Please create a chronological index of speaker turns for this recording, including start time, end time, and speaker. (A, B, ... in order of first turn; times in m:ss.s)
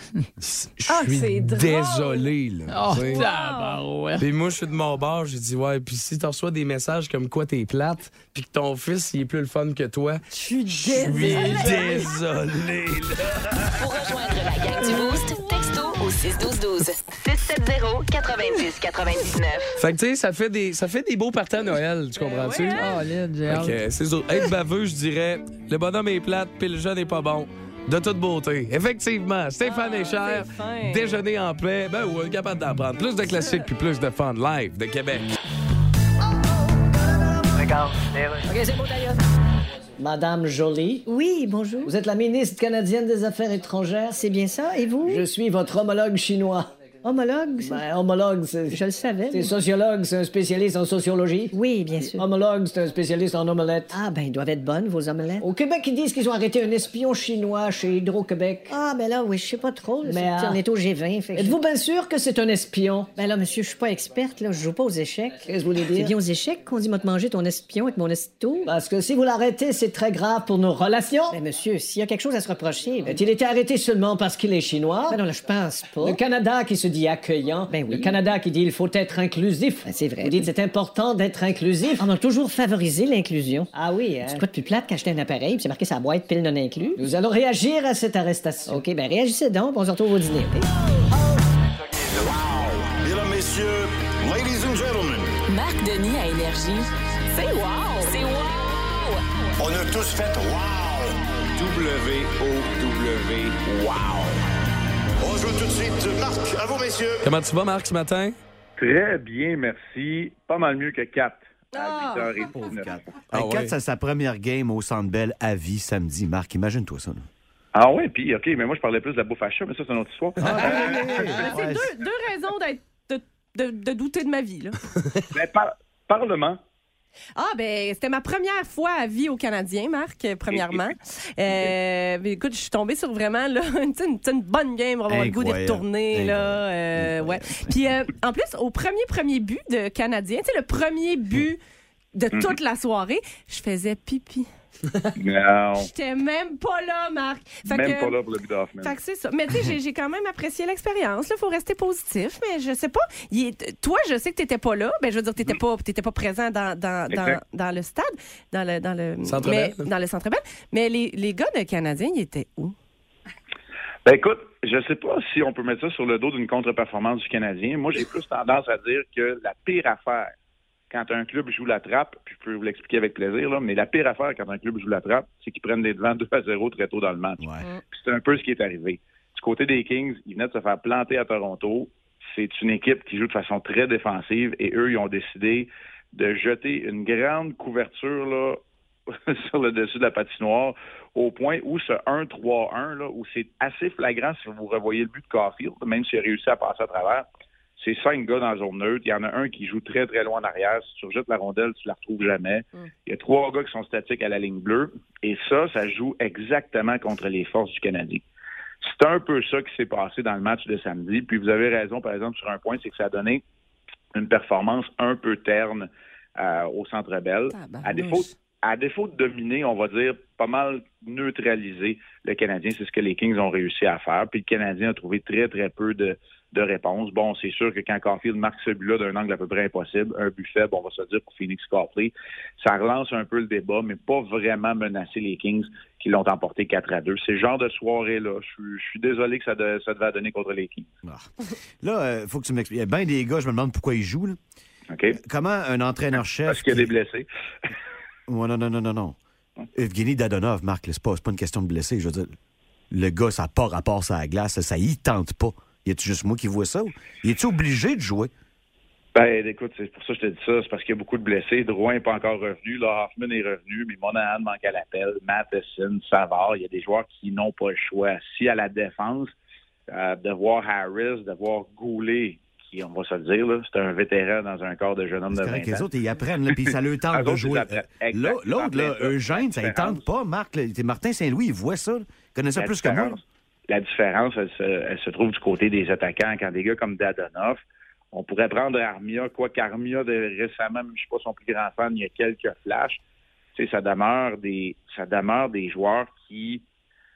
0:00.4-0:03.3 A
0:00.9-0:02.3 B
0:02.7-0:04.3 C
0:03.0-0:03.8 B
0:04.2-0:13.7 A
0:10.3-0:12.1 B
0:11.2-0:12.0 C
0:13.7-0:19.8 D
0:19.8-0:22.9 A
0:22.2-0:22.9 B
0:22.8-0:23.8 C
0:23.5-0:35.3 A
0:29.6-0:31.2 B
0:33.3-0:33.6 B
0:37.4-0:39.2 E
0:40.0-0:41.1 E
0:41.1-0:41.9 F
0:41.8-0:44.3 E
0:44.2-0:45.2 F
0:45.0-0:46.7 E
0:47.0-0:47.8 F
0:47.6-0:54.0 E
0:48.7-0:49.5 F
0:51.5-0:52.2 F
0:53.9-0:55.4 F
0:55.4-0:58.8 E
0:58.7-1:01.6 F
1:00.0-1:00.6 E
1:01.3-1:03.2 E
1:03.2-1:08.7 F
1:05.4-1:06.2 E
1:08.6-1:11.4 E
1:11.3-1:13.2 F
1:13.0-1:15.3 E
1:15.1-1:16.2 F
1:16.0-1:22.1 E
1:17.7-1:18.2 F
1:19.9-1:20.5 F
1:22.0-1:23.7 F
1:23.7-1:24.5 E
1:24.2-1:27.0 F
1:27.0-1:28.9 E
1:28.7-1:30.6 F
1:32.0-1:35.3 G
1:35.5-1:36.9 D
1:37.4-1:38.1 B
1:37.5-1:39.5 D
1:39.6-1:44.4 G
1:45.2-1:47.3 G
1:47.2-1:48.4 A
1:48.8-1:53.0 H
1:51.7-1:52.5 B
1:52.5-1:57.2 I
1:53.3-1:53.7 A
1:57.7-2:01.5 H
2:00.4-2:01.9 I
2:00.6-2:04.8 B
2:05.3-2:06.6 H
2:07.4-2:21.6 B
2:10.5-2:10.9 H
2:11.5-2:11.8 H
2:15.1-2:17.8 I
2:22.1-2:24.5 B
2:25.2-2:25.9 H
2:25.8-2:28.2 B
2:27.6-2:29.0 H
2:28.8-2:42.8 B
2:37.1-2:37.4 H
2:39.3-2:39.8 A
2:44.0-2:50.3 H
2:50.9-3:08.6 H
3:09.1-3:17.3 H
3:17.8-3:28.2 H
3:28.8-3:33.4 H
3:34.1-4:00.9 H
3:37.5-3:38.3 B
4:01.8-4:04.4 I
4:04.9-4:05.2 H
4:05.2-4:06.9 I
4:06.5-4:07.3 H
4:08.3-4:09.2 I
4:09.7-4:12.3 I
4:12.9-4:18.3 I
4:19.2-4:29.3 H
4:29.9-4:35.9 H
4:35.3-4:43.2 I
4:37.1-4:40.0 H
4:42.6-4:53.0 H
4:53.6-4:56.6 H